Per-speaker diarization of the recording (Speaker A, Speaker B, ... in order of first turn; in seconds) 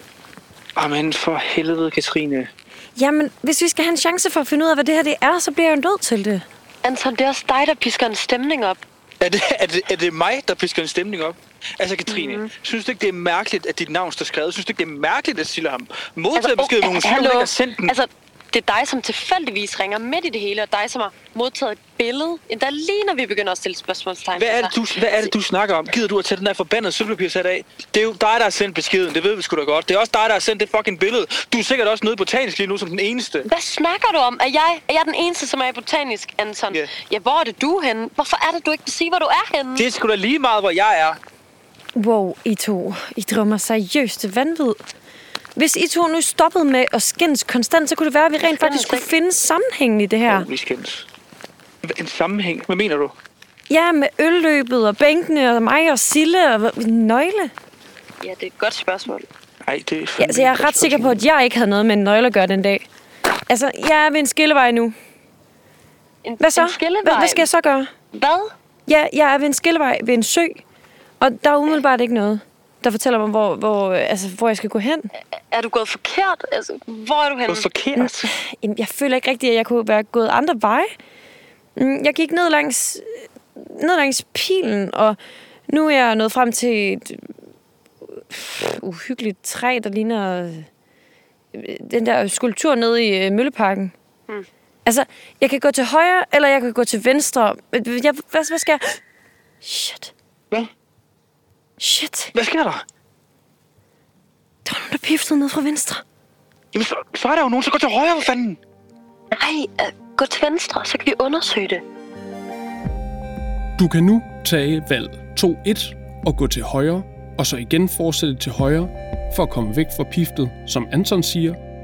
Speaker A: 0.8-2.5, 9.2-17.9, 24.4-33.5, 39.8-41.2, 50.2-51.1, 51.8-53.1, 59.6-61.2, 77.5-78.3, 102.3-102.8, 106.7-108.6
Speaker B: 3.0-6.4, 41.9-44.8, 45.5-50.5, 53.7-57.5, 60.2-62.8, 63.5-64.9, 66.4-67.9, 68.9-70.6, 71.2-75.1, 78.0-80.9, 81.8-85.2, 85.7-87.3, 88.1-90.7, 91.5-93.9, 94.8-99.0, 99.6-100.1, 101.8-102.3, 104.6-106.0
Speaker C: 6.8-8.8, 12.1-12.5, 16.3-24.7, 33.4-39.9, 48.4-49.1, 58.2-59.3, 66.2-67.5, 68.1-68.5, 75.5-77.7, 109.3-111.8
Speaker D: 113.8-121.6